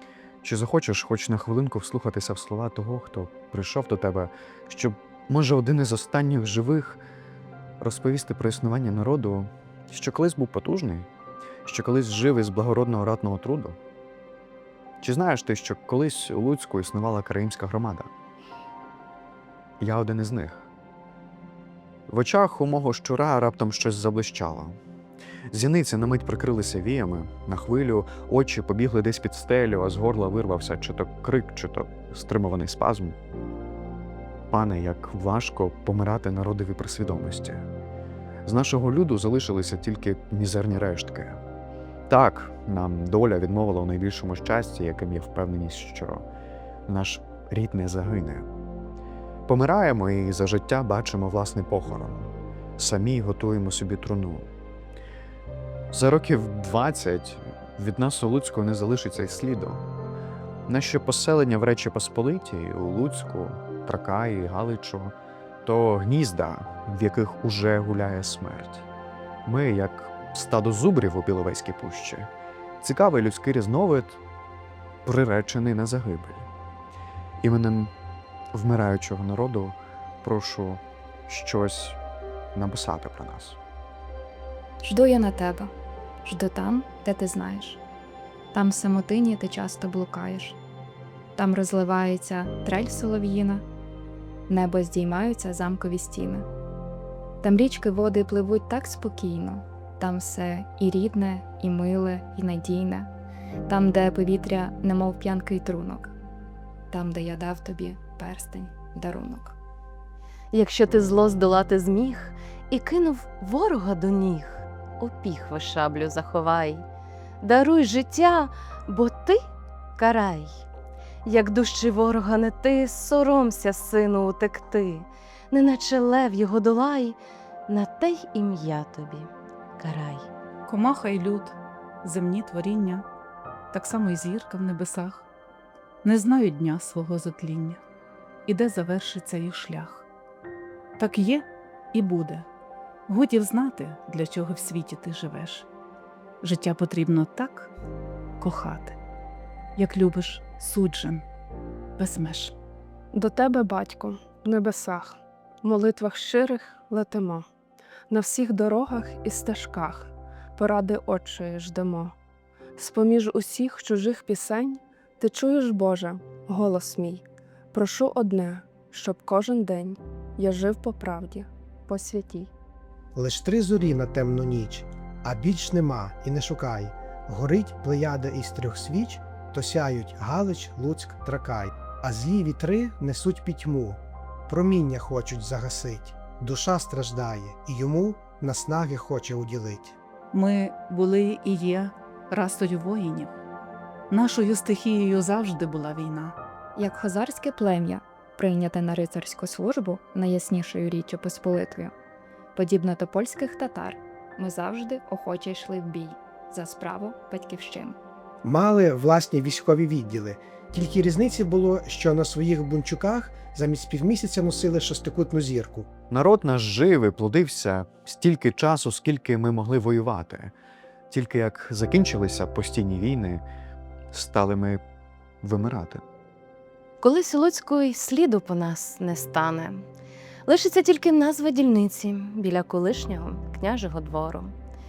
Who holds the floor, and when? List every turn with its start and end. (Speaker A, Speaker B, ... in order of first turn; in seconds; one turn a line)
Speaker A: 0.4-7.0
Speaker A: 7.8-11.1
Speaker A: 11.6-13.8
Speaker A: 15.0-18.1
Speaker A: 19.8-20.7
Speaker A: 22.1-24.8
Speaker A: 25.5-33.2
Speaker A: 34.5-37.7
Speaker A: 38.4-41.4
Speaker A: 42.1-46.2
Speaker A: 46.9-48.5
Speaker A: 49.5-54.5
Speaker A: 55.9-59.8
Speaker A: 60.7-68.9
Speaker A: 69.5-74.2
Speaker A: 75.0-76.5
Speaker A: 77.4-77.9
Speaker A: 78.5-82.0
Speaker A: 82.5-83.6
Speaker B: 84.8-85.7
Speaker B: 86.2-87.8
Speaker B: 88.5-90.6
Speaker B: 91.3-93.6
Speaker B: 94.5-96.5
Speaker B: 97.4-103.1
Speaker B: 103.7-106.1
Speaker B: 106.9-109.6
Speaker C: 110.5-116.8
Speaker C: 117.4-119.4
Speaker C: 120.0-120.6
Speaker C: 121.2-127.2
Speaker C: 127.7-130.3
Speaker D: 130.7-133.1
Speaker D: 133.7-135.3
Speaker D: 136.0-137.8
Speaker D: 138.4-140.1
Speaker D: 141.0-142.5
Speaker D: 143.1-145.7
Speaker D: 146.4-147.7
Speaker D: 148.4-149.0
Speaker D: 149.8-151.2
Speaker D: 152.0-152.6
Speaker E: 153.1-157.4
Speaker E: 158.1-162.2
Speaker E: 162.8-172.5
Speaker F: 173.2-190.0
Speaker D: 190.3-193.3
Speaker D: 194.1-196.3
Speaker B: 196.8-201.9
Speaker B: 202.5-208.0
Speaker F: 208.4-215.9
Speaker A: 216.1-220.5
Speaker A: 221.1-223.4
Speaker A: 224.1-224.8
Speaker A: 225.4-226.0
Speaker C: 227.0-229.8
Speaker C: 230.5-234.5